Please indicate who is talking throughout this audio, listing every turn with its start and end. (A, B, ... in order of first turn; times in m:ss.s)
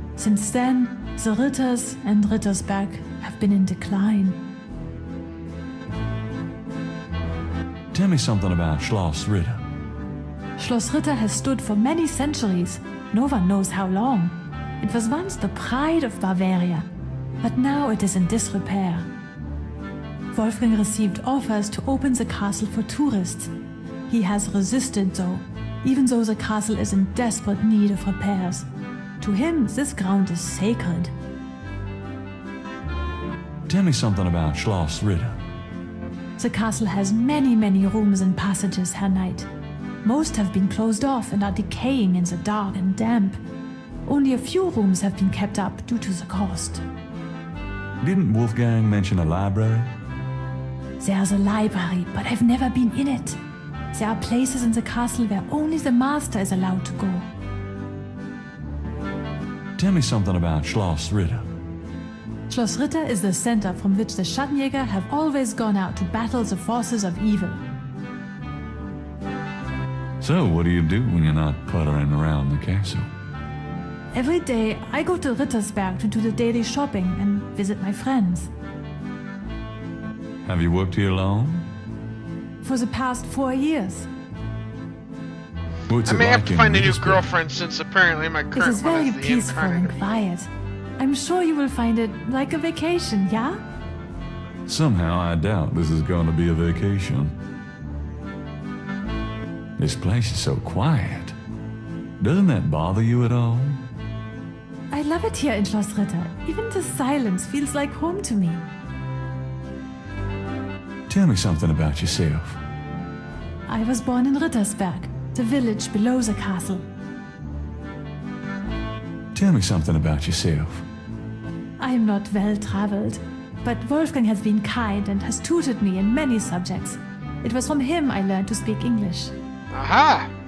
0:00.2-0:04.4 A
0:07.9-0:09.6 B
0:10.6-0:16.9 A
0:17.4-0:19.1 A
0:20.3-0:23.5 A
0:24.1-0:28.7 A
0:29.2-0:31.1 A
0:33.7-0:35.4 B
0:36.4-0:39.5 A
0:40.0-0:43.4 A
0:44.1-0:46.8 A
0:48.0-0:49.9 B
0:51.0-0:53.4 A
0:53.9-0:57.3 A
0:59.8-1:01.5 B
1:02.5-1:07.6 A
1:10.2-1:13.1 B
1:14.1-1:18.5 A
1:20.4-1:21.7 B
1:22.6-1:24.1 A
1:25.9-1:27.3 B
1:26.1-1:30.1 C
1:28.5-1:33.6 A
1:34.7-1:37.4 B
1:39.8-1:41.4 B
1:42.2-1:43.8 B
1:44.9-1:48.6 A
1:51.1-1:52.6 B
1:53.7-1:56.9 A
1:59.4-2:00.9 B
2:01.8-2:09.3 A
2:09.7-2:10.3 C